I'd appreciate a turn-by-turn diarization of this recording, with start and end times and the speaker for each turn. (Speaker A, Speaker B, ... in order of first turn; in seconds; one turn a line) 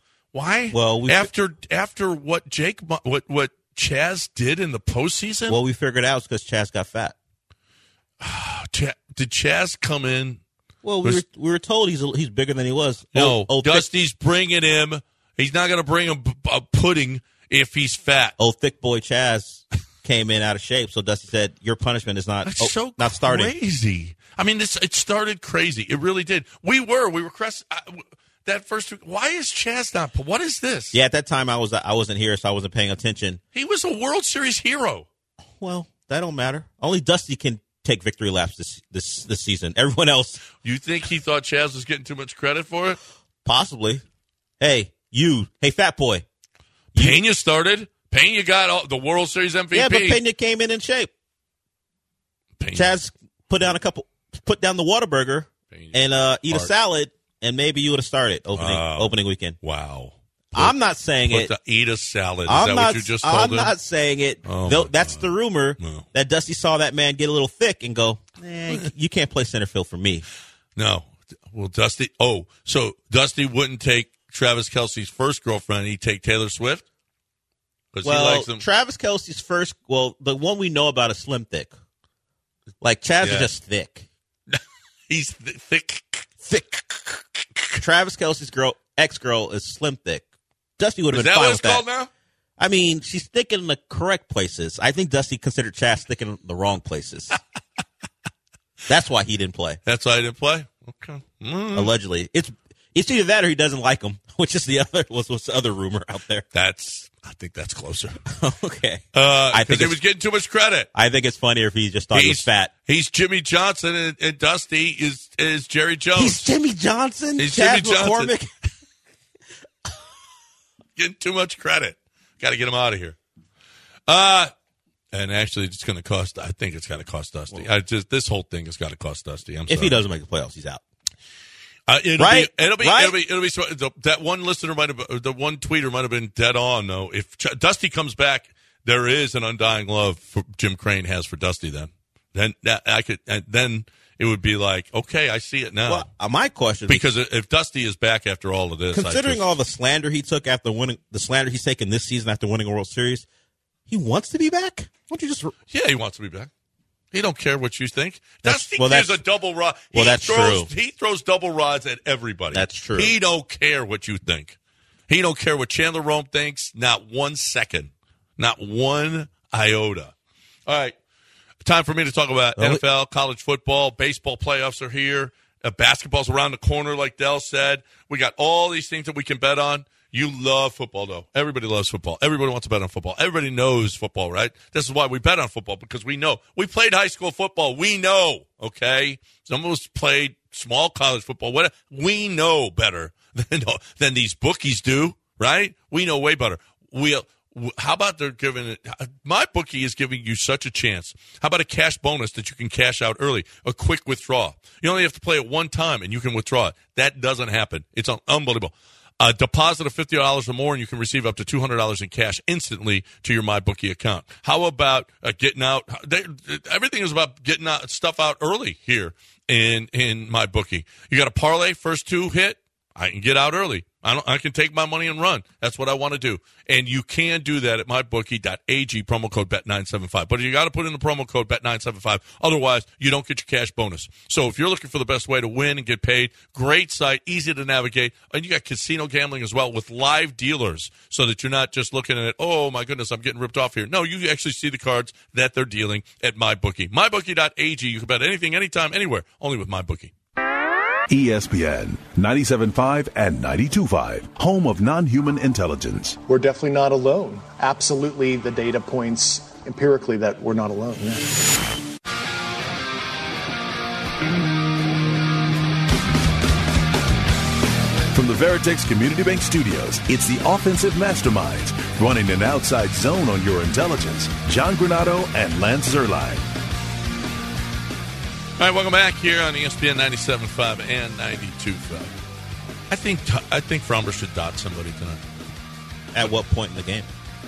Speaker A: 0.3-5.6
Speaker B: 0.7-1.3
Speaker B: 5.5-7.1
Speaker A: 8.2-10.4
Speaker B: 10.8-13.9
Speaker A: 13.1-18.4
Speaker B: 18.4-23.5
Speaker A: 22.4-31.0
Speaker B: 30.9-33.4
Speaker A: 33.5-35.1
Speaker B: 35.6-40.4
Speaker A: 40.6-43.0
Speaker B: 43.4-44.0
Speaker B: 44.6-46.2
Speaker A: 46.9-50.2
Speaker B: 46.9-47.2
Speaker B: 49.7-51.1
Speaker A: 52.6-53.0
Speaker B: 52.7-59.6
Speaker A: 55.7-56.7
Speaker A: 58.5-63.7
Speaker B: 60.5-61.5
Speaker B: 62.5-70.2
Speaker A: 64.4-66.0
Speaker A: 70.8-76.8
Speaker A: 77.9-78.6
Speaker B: 78.0-81.7
Speaker B: 82.8-84.1
Speaker A: 83.2-83.5
Speaker A: 84.5-86.3
Speaker B: 86.4-86.8
Speaker A: 87.0-87.8
Speaker B: 87.8-90.3
Speaker B: 90.8-91.9
Speaker A: 91.1-92.1
Speaker B: 92.6-97.4
Speaker B: 98.9-99.8
Speaker A: 99.8-101.9
Speaker B: 101.7-106.4
Speaker A: 106.5-108.2
Speaker B: 108.3-110.0
Speaker A: 109.1-110.9
Speaker B: 110.9-112.7
Speaker A: 112.1-116.5
Speaker B: 116.2-118.5
Speaker A: 117.3-118.3
Speaker A: 121.0-123.2
Speaker A: 124.1-124.5
Speaker A: 125.1-130.0
Speaker B: 129.7-130.8
Speaker A: 131.9-146.1
Speaker B: 132.2-133.2
Speaker B: 145.9-147.0
Speaker A: 146.9-149.5
Speaker B: 148.9-153.3
Speaker B: 153.9-155.5
Speaker A: 155.7-156.5
Speaker A: 157.1-164.6
Speaker B: 158.4-159.2
Speaker B: 159.9-160.7
Speaker B: 162.5-163.1
Speaker A: 165.1-170.1
Speaker A: 170.7-170.9
Speaker A: 171.6-250.1
Speaker B: 172.6-172.8
Speaker C: 251.1-256.2
Speaker D: 256.3-261.4
Speaker C: 268.1-276.5
Speaker A: 278.6-282.1
Speaker A: 282.9-285.2
Speaker B: 286.1-287.1